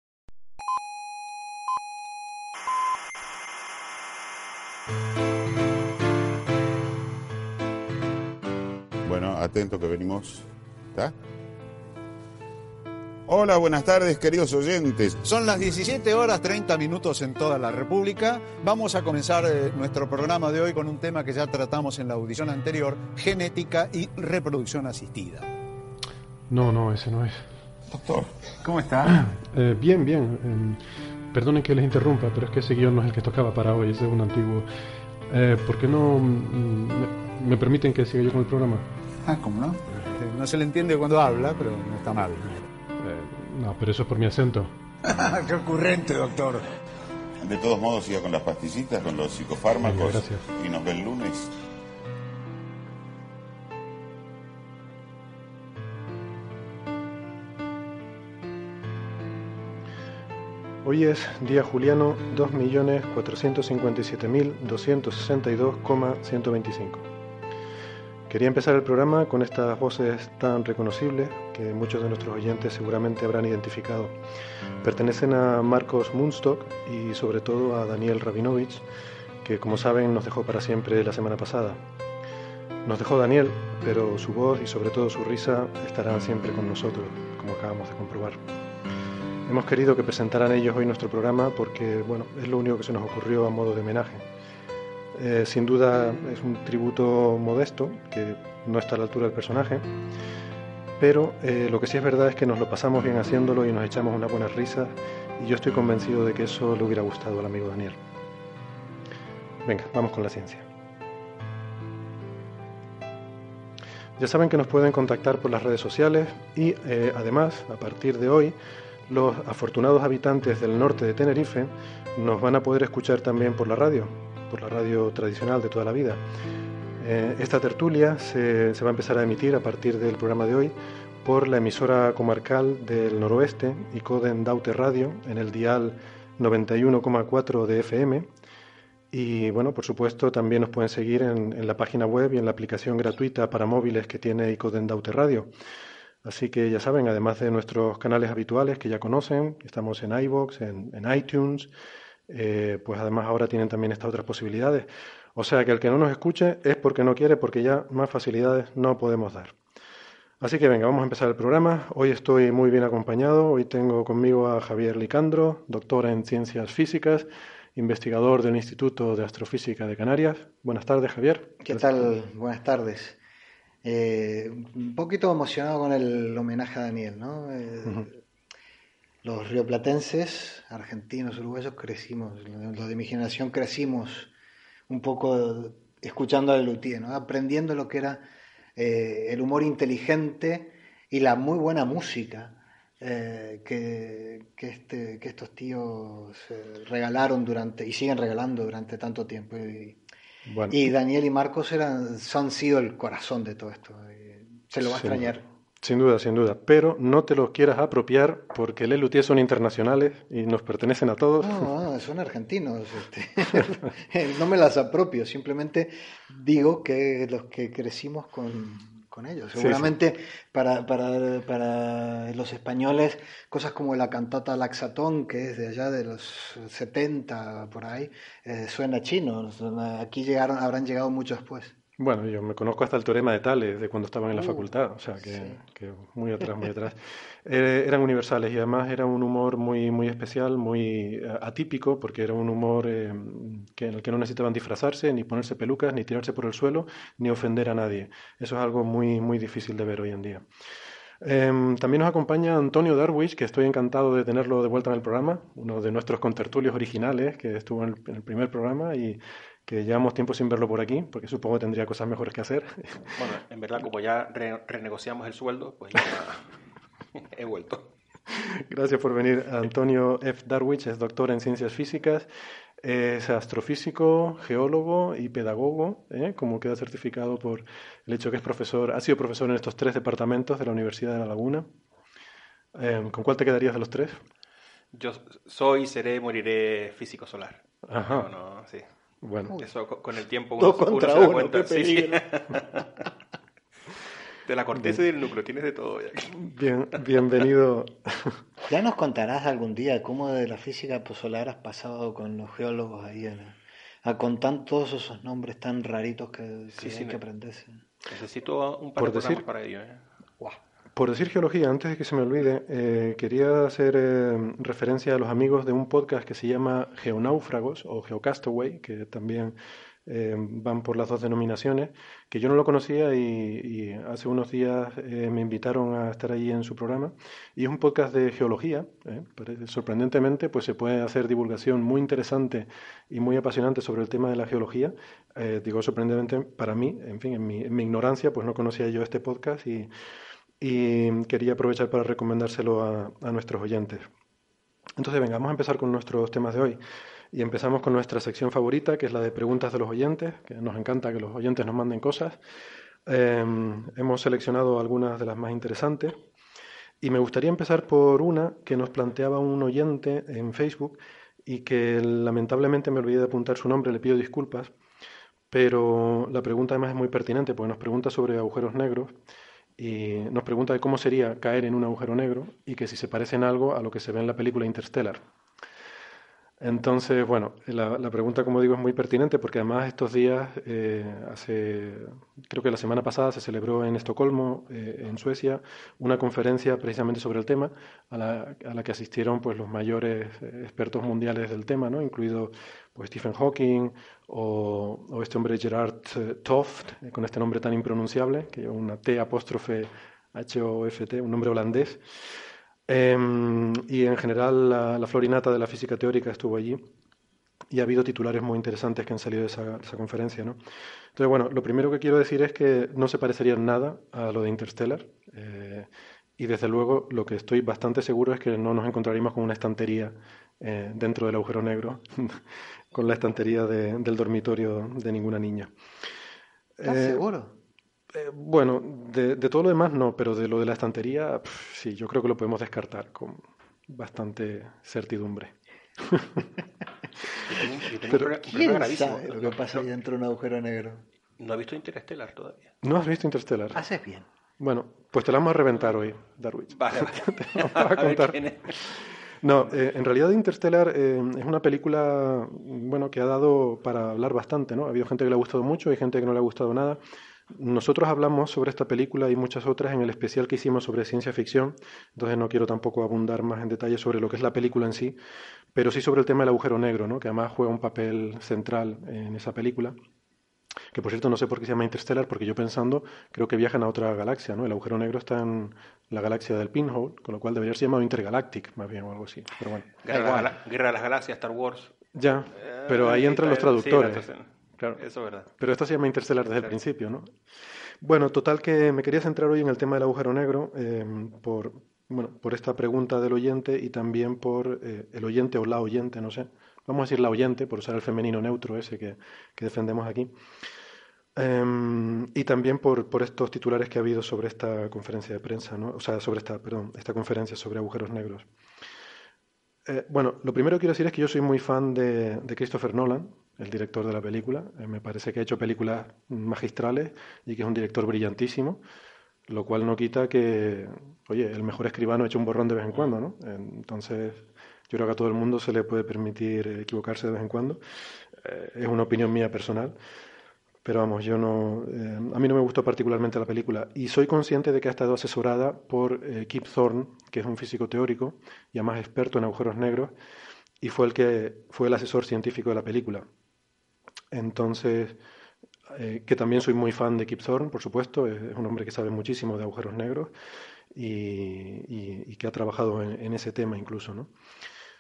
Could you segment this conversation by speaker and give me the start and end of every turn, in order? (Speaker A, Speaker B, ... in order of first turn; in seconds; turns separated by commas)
Speaker A: 9.1-11.1, Speaker A: 13.3-15.2, Speaker B: 15.2-25.5, Speaker C: 26.5-27.4, Speaker B: 28.6-29.2, Speaker C: 29.1-34.7, Speaker C: 35.3-38.9, Speaker B: 39.3-42.7, Speaker C: 43.0-44.7, Speaker B: 45.0-46.7, Speaker A: 47.4-51.5, Speaker C: 49.8-50.5, Speaker C: 60.8-67.1, Speaker C: 68.3-74.2, Speaker C: 74.8-78.8, Speaker C: 79.4-81.8, Speaker C: 82.8-88.4, Speaker C: 89.5-94.3, Speaker C: 95.1-99.9, Speaker C: 101.0-108.0, Speaker C: 109.7-110.7, Speaker C: 114.2-118.6, Speaker C: 119.1-126.2, Speaker C: 127.0-138.3, Speaker C: 139.1-145.5, Speaker C: 146.2-151.7, Speaker C: 152.3-159.6, Speaker C: 160.4-172.1, Speaker D: 171.6-173.2, Speaker D: 173.8-178.2, Speaker D: 179.2-184.3, Speaker D: 184.9-188.2, Speaker D: 188.8-200.0, Speaker C: 200.5-200.9, Speaker D: 200.7-205.4, Speaker C: 204.8-211.7, Speaker D: 211.4-231.8, Speaker C: 219.6-219.9, Speaker C: 232.0-250.5, Speaker D: 234.3-235.6, Speaker C: 251.2-263.2, Speaker E: 263.2-266.5, Speaker E: 267.1-267.9, Speaker C: 268.3-272.3, Speaker C: 272.8-281.7, Speaker C: 282.8-284.2, Speaker E: 284.9-288.9, Speaker C: 287.9-288.3, Speaker C: 289.2-289.5, Speaker E: 289.6-292.9, Speaker D: 290.6-292.3, Speaker E: 294.4-296.4, Speaker C: 294.7-295.0, Speaker C: 296.3-298.4, Speaker D: 298.7-307.8, Speaker E: 306.8-307.2, Speaker E: 308.1-310.0, Speaker C: 309.0-309.4, Speaker C: 310.9-339.9, Speaker C: 340.6-344.1, Speaker C: 345.0-346.8, Speaker C: 347.3-352.4, Speaker C: 353.1-356.2, Speaker C: 357.0-364.7, Speaker C: 365.5-369.1, Speaker C: 369.8-375.2, Speaker C: 376.6-402.2, Speaker C: 402.9-406.8, Speaker C: 407.7-410.6, Speaker C: 411.1-425.7, Speaker C: 426.8-427.3, Speaker D: 426.8-427.6, Speaker C: 428.1-436.4, Speaker E: 437.4-439.9, Speaker D: 438.5-441.0, Speaker E: 441.4-442.7, Speaker C: 442.8-443.8, Speaker D: 443.8-444.3, Speaker C: 444.6-465.2, Speaker E: 446.8-448.8, Speaker C: 465.7-470.0, Speaker C: 470.9-480.5, Speaker E: 480.0-481.9, Speaker C: 482.1-485.0, Speaker E: 482.6-485.5, Speaker C: 485.6-487.3, Speaker C: 488.0-500.3, Speaker C: 501.4-508.5, Speaker C: 509.9-518.8, Speaker C: 519.5-527.8, Speaker C: 528.3-530.0, Speaker C: 530.8-540.1, Speaker C: 540.8-543.3, Speaker C: 544.3-545.2, Speaker C: 545.9-550.3, Speaker C: 550.9-554.3